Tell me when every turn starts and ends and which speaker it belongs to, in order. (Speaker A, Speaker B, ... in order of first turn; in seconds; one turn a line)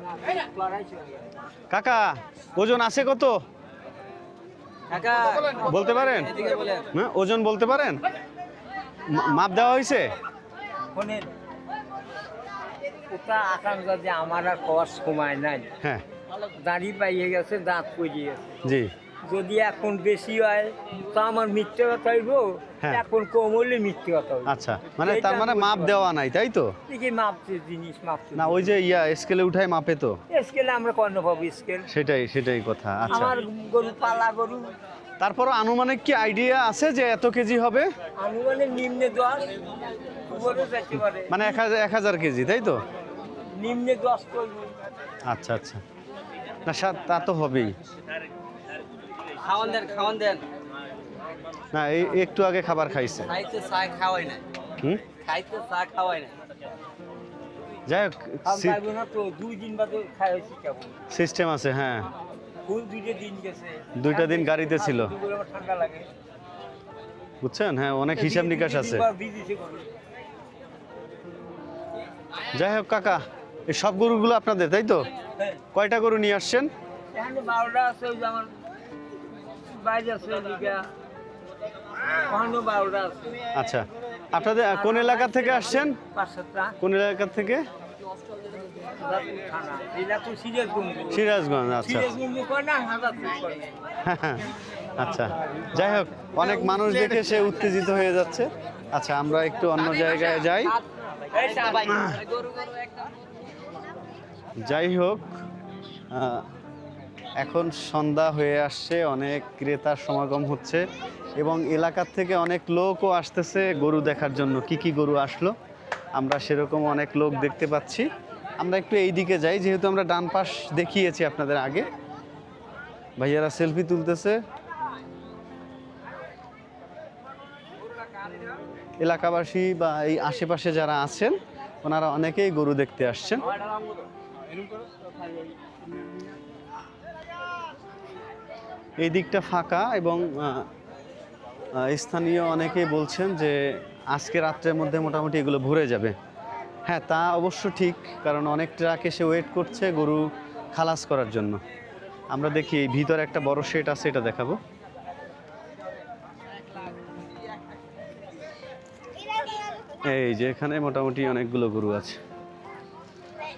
Speaker A: 0.2-1.3
Speaker B: 1.7-3.4
Speaker C: 4.9-6.8
Speaker A: 4.9-5.8
Speaker B: 5.6-6.3
Speaker B: 6.9-8.0
Speaker B: 9.1-10.1
Speaker A: 10.9-11.3
Speaker A: 13.1-15.7
Speaker A: 16.5-18.6
Speaker B: 18.6-18.9
Speaker A: 19.2-24.4
Speaker B: 24.4-26.8
Speaker A: 25.0-26.0
Speaker A: 26.9-28.7
Speaker B: 28.3-30.2
Speaker A: 30.3-31.9
Speaker B: 31.9-33.4
Speaker A: 33.1-34.8
Speaker B: 35.2-37.9
Speaker A: 38.2-39.6
Speaker A: 40.3-41.5
Speaker B: 41.3-42.8
Speaker A: 43.5-44.7
Speaker B: 45.2-45.8
Speaker B: 46.6-47.8
Speaker C: 49.4-50.4
Speaker B: 51.7-53.3
Speaker C: 53.3-54.4
Speaker B: 54.8-55.0
Speaker C: 55.2-56.3
Speaker B: 57.9-58.8
Speaker A: 58.5-61.0
Speaker B: 61.1-62.1
Speaker A: 62.6-66.1
Speaker B: 64.0-65.1
Speaker B: 67.4-69.1
Speaker A: 68.1-69.9
Speaker B: 72.5-75.1
Speaker B: 75.7-76.7
Speaker A: 77.1-78.5
Speaker A: 79.6-80.9
Speaker A: 82.2-83.4
Speaker B: 83.5-86.0
Speaker A: 84.7-86.8
Speaker B: 86.8-87.6
Speaker A: 89.0-91.2
Speaker B: 91.1-92.1
Speaker A: 91.7-93.8
Speaker B: 94.0-100.7
Speaker A: 101.3-102.7
Speaker B: 101.8-102.2
Speaker B: 104.6-105.3
Speaker B: 106.1-106.5
Speaker B: 107.4-110.8
Speaker B: 111.4-115.5
Speaker B: 116.2-118.1
Speaker B: 118.6-121.9
Speaker B: 123.2-124.4
Speaker B: 129.0-133.5
Speaker B: 139.0-140.7
Speaker B: 141.7-146.2
Speaker B: 146.8-151.6
Speaker B: 152.3-154.6
Speaker B: 160.0-162.2